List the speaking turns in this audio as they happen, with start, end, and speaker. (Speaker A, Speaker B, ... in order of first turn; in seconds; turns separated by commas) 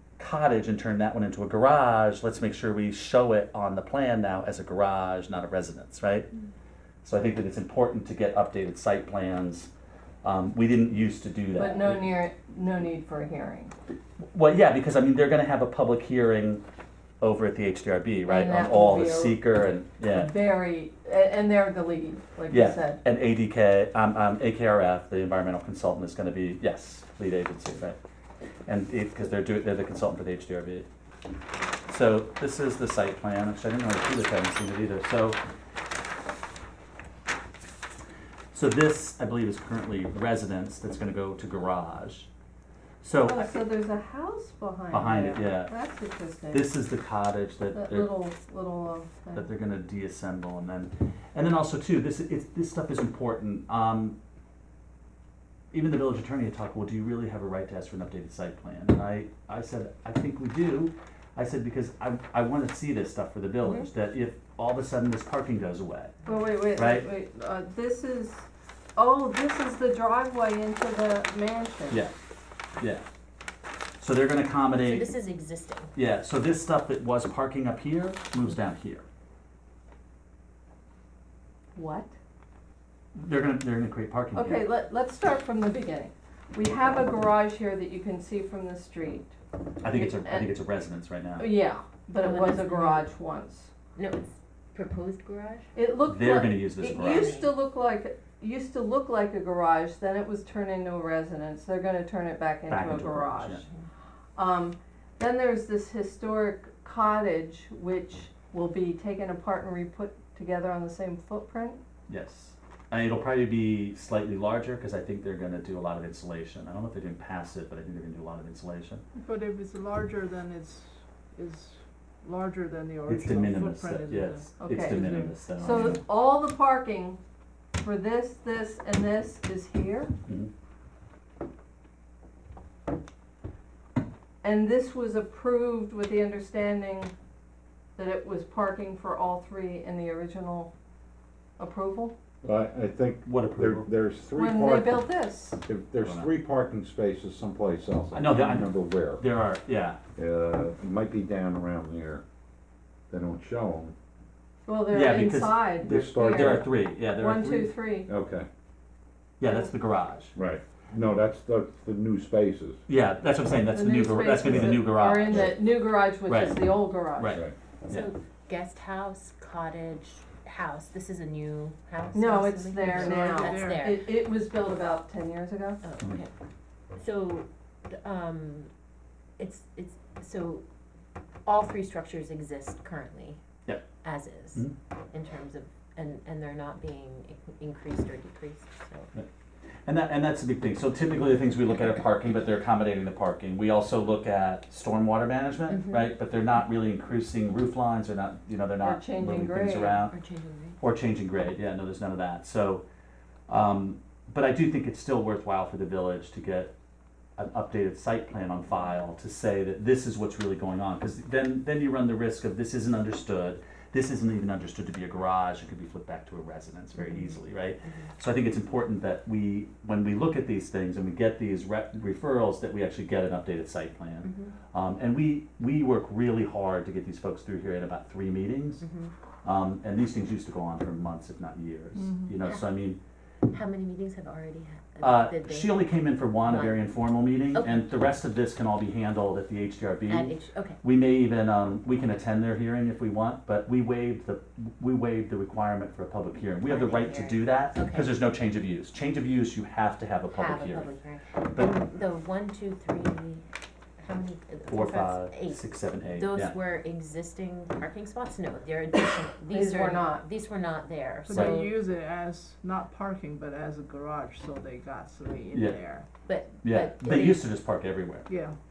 Speaker A: 0.2-6.3, Speaker A: 7.0-9.7, Speaker A: 10.2-12.0, Speaker B: 11.6-13.7, Speaker A: 14.3-16.6, Speaker A: 17.2-20.3, Speaker B: 18.3-19.4, Speaker B: 20.1-23.0, Speaker A: 22.5-28.0, Speaker A: 28.6-30.9, Speaker A: 31.9-35.4, Speaker A: 38.5-42.3, Speaker A: 43.0-43.5, Speaker B: 43.2-46.7, Speaker A: 44.9-45.7, Speaker A: 46.5-48.1, Speaker B: 47.7-49.5, Speaker A: 49.3-54.2, Speaker A: 55.7-66.1, Speaker B: 66.2-72.0, Speaker A: 66.7-67.1, Speaker A: 72.8-73.0, Speaker A: 74.0-75.1, Speaker C: 74.8-75.9, Speaker A: 75.9-79.0, Speaker B: 81.7-82.1, Speaker A: 83.1-84.7, Speaker B: 84.3-89.3, Speaker A: 89.8-91.5, Speaker B: 89.9-90.5, Speaker B: 91.4-93.7, Speaker C: 92.2-93.1, Speaker C: 94.0-95.7, Speaker B: 95.7-103.7, Speaker A: 96.0-97.4, Speaker C: 96.9-97.5, Speaker A: 102.7-103.7, Speaker B: 104.3-111.8, Speaker A: 112.1-119.0, Speaker D: 119.2-126.0, Speaker A: 123.1-126.0, Speaker B: 124.6-127.2, Speaker B: 127.8-130.1, Speaker B: 134.4-137.1, Speaker B: 137.9-140.7, Speaker B: 141.6-142.2, Speaker E: 142.4-145.1, Speaker A: 143.2-143.9, Speaker B: 144.3-145.6, Speaker E: 145.6-149.2, Speaker A: 146.0-146.3, Speaker A: 148.1-150.0, Speaker E: 150.2-152.2, Speaker E: 153.1-153.9, Speaker B: 154.7-158.1, Speaker A: 154.9-157.7, Speaker E: 155.8-156.7, Speaker E: 158.1-158.5, Speaker A: 159.4-160.3, Speaker E: 160.3-162.8, Speaker A: 162.9-165.6, Speaker B: 163.7-167.4, Speaker A: 166.2-168.1, Speaker C: 167.9-174.0, Speaker B: 172.1-175.8, Speaker D: 172.8-173.9, Speaker C: 175.8-176.3, Speaker C: 176.9-178.7, Speaker C: 179.4-180.6, Speaker C: 181.4-183.4, Speaker C: 184.0-189.1, Speaker A: 189.8-200.1, Speaker C: 195.7-196.1, Speaker B: 198.8-200.0, Speaker C: 200.1-200.8, Speaker A: 200.8-202.8, Speaker A: 203.5-206.7, Speaker A: 207.4-228.8, Speaker C: 216.9-218.1, Speaker C: 224.2-224.5, Speaker C: 228.8-229.1, Speaker A: 229.4-233.0, Speaker D: 231.9-232.3, Speaker C: 232.4-232.7, Speaker C: 233.5-236.9, Speaker A: 235.0-250.9, Speaker C: 237.5-238.0, Speaker C: 240.1-240.8, Speaker C: 246.6-248.2, Speaker C: 250.3-253.4, Speaker C: 254.0-261.7, Speaker A: 254.7-256.6, Speaker B: 259.5-260.2, Speaker D: 261.2-266.1, Speaker A: 261.3-261.6, Speaker C: 266.2-267.5, Speaker A: 266.6-268.3, Speaker D: 268.3-268.6